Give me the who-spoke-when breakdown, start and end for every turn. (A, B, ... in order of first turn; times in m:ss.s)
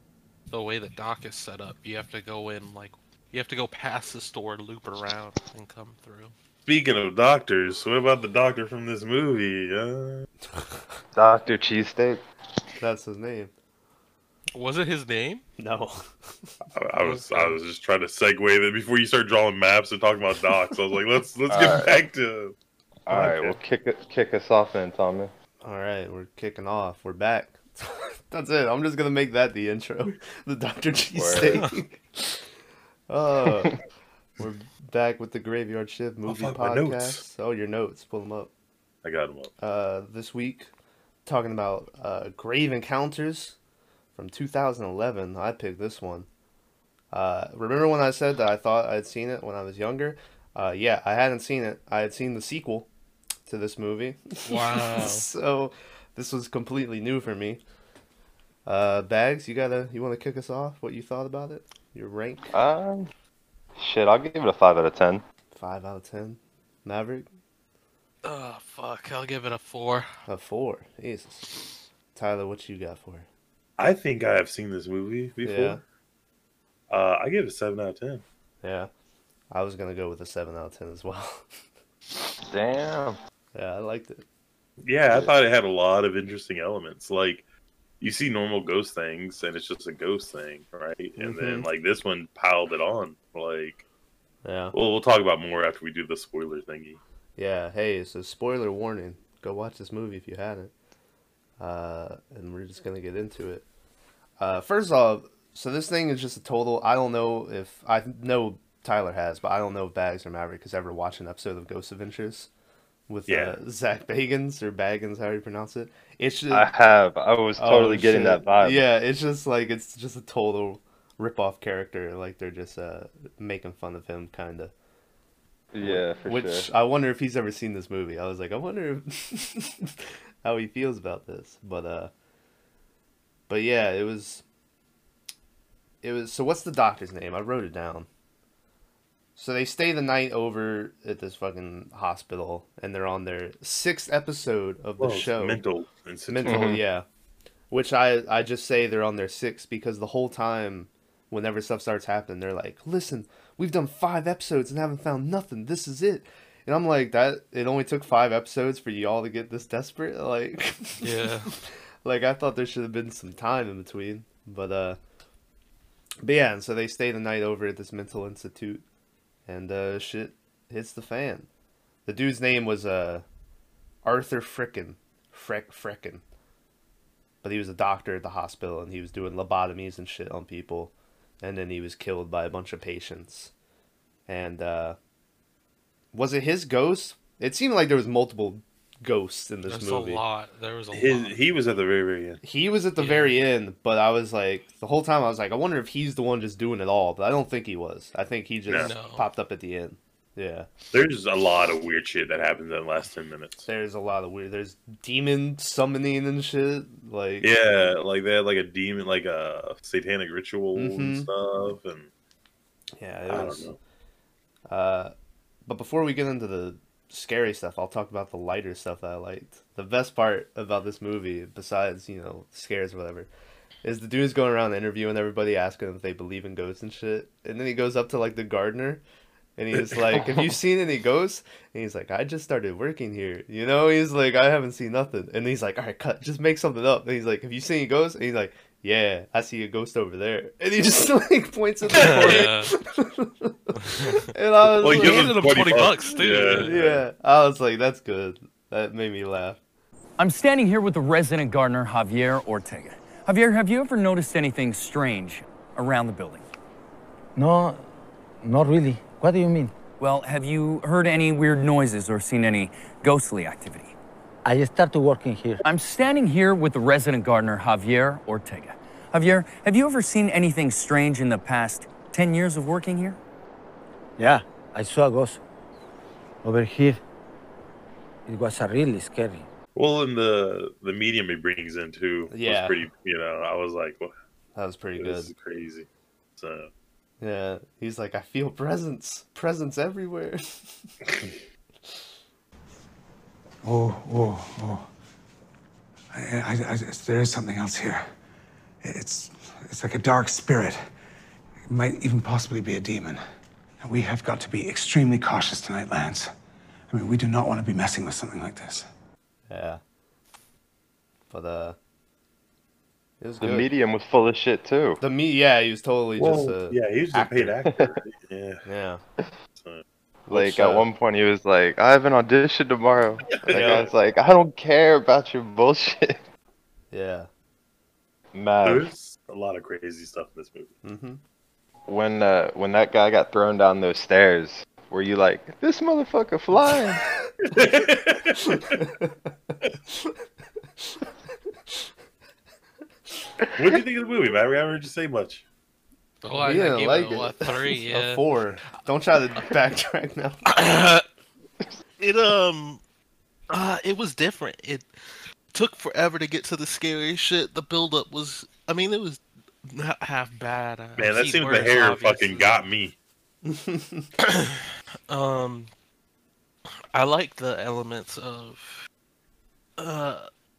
0:00.5-0:06.3 A
0:06.7-0:10.3 B
0:10.6-0:10.8 C
0:11.1-0:12.2 D
0:12.8-0:13.5 C
0:14.6-0:15.4 A
0:15.6-0:16.0 C
0:16.7-0:22.6 B
0:17.0-0:17.6 A
0:21.5-0:22.0 D
0:23.1-0:25.3 D
0:23.1-0:23.5 B
0:23.1-0:23.6 C
0:25.6-0:32.5 C
0:31.2-0:31.6 D
0:33.1-0:33.8 C
0:34.4-0:38.5 C
0:36.3-0:37.2 B
0:39.0-0:39.5 B
0:39.6-0:40.7 C
0:41.3-0:43.6 C
0:44.2-0:46.3 C
0:47.1-0:52.9 C
0:53.5-0:57.6 C
0:54.5-0:55.3 A
0:58.7-1:02.5 C
1:02.5-1:03.1 D
1:03.8-1:05.2 D
1:05.5-1:07.3 C
1:08.2-1:10.1 A
1:10.3-1:11.5 C
1:12.1-1:13.3 C
1:13.8-1:15.8 B
1:15.4-1:15.8 C
1:16.9-1:18.2 B
1:18.6-1:18.9 C
1:19.5-1:21.5 C
1:22.5-1:23.2 D
1:23.5-1:24.2 C
1:24.8-1:27.4 B
1:28.0-1:33.8 B
1:31.2-1:31.7 C
1:34.4-1:34.8 C
1:34.7-1:37.0 B
1:37.4-1:40.7 C
1:41.6-1:43.6 C
1:44.4-1:52.5 C
1:53.1-1:56.7 C
1:53.3-1:53.6 B
1:56.5-1:58.8 D
1:57.6-2:04.7 C
2:05.7-2:06.7 D
2:05.8-2:12.1 C
2:13.5-2:14.4 C
2:16.0-2:18.1 C
2:19.4-2:25.6 C
2:25.0-2:26.8 B
2:26.3-2:27.1 C
2:26.5-2:26.8 D
2:27.7-2:45.0 C
2:41.0-2:41.5 A
2:46.2-2:48.8 C
2:49.5-2:51.5 C
2:52.1-2:53.3 C
2:54.0-2:56.2 C
2:57.4-3:03.5 C
3:04.3-3:05.0 C
3:06.1-3:10.2 C
3:09.7-3:11.4 A
3:10.9-3:12.4 B
3:12.4-3:20.7 C
3:13.0-3:13.4 A
3:18.7-3:18.9 B
3:18.8-3:19.2 A
3:20.9-3:23.7 B
3:23.7-3:27.5 C
3:27.4-3:32.1 B
3:30.8-3:31.3 C
3:33.0-3:33.8 C
3:33.3-3:33.8 B
3:34.7-3:35.1 C
3:35.7-3:43.3 C
3:43.8-3:49.0 C
3:49.6-4:05.6 C
4:01.9-4:02.7 A
4:02.0-4:02.4 B
4:03.8-4:04.3 A
4:04.7-4:07.0 B
4:04.8-4:06.9 A
4:06.6-4:09.6 C
4:10.2-4:16.5 E
4:17.4-4:17.9 F
4:18.4-4:19.7 F
4:20.0-4:23.9 E
4:24.4-4:25.6 F
4:25.6-4:33.2 E
4:34.2-4:35.4 F
4:36.4-4:37.0 F
4:38.3-4:39.5 F
4:39.8-4:44.1 B
4:42.3-4:42.8 C
4:44.6-4:45.3 C
4:45.0-4:46.7 B
4:47.2-4:50.4 C
4:53.6-4:54.9 G
4:56.1-4:58.1 G
4:58.8-5:00.8 G
5:01.7-5:03.2 G
5:03.8-5:06.3 G
5:06.9-5:08.9 G
5:09.5-5:09.8 C
5:11.3-5:11.8 C
5:13.2-5:13.7 C
5:13.4-5:15.0 D
5:15.0-5:17.6 C
5:16.2-5:18.6 B
5:18.6-5:19.0 C
5:19.6-5:19.8 B
5:20.3-5:26.2 D
5:20.3-5:20.9 C
5:23.3-5:23.9 B
5:23.4-5:23.9 C
5:26.9-5:27.3 C
5:28.3-5:28.9 D
5:28.6-5:30.7 B
5:30.8-5:31.2 C
5:31.9-5:37.0 D
5:37.5-5:38.8 B
5:38.4-5:40.2 C
5:43.6-5:45.4 B
5:46.2-5:48.2 A
5:46.4-5:50.4 C
5:50.5-5:51.0 A
5:52.0-5:52.8 A
5:53.5-5:54.9 A
5:55.5-6:02.6 A
6:01.0-6:03.0 B
6:03.5-6:04.1 C
6:04.2-6:05.7 A
6:06.9-6:08.8 A
6:09.8-6:10.3 A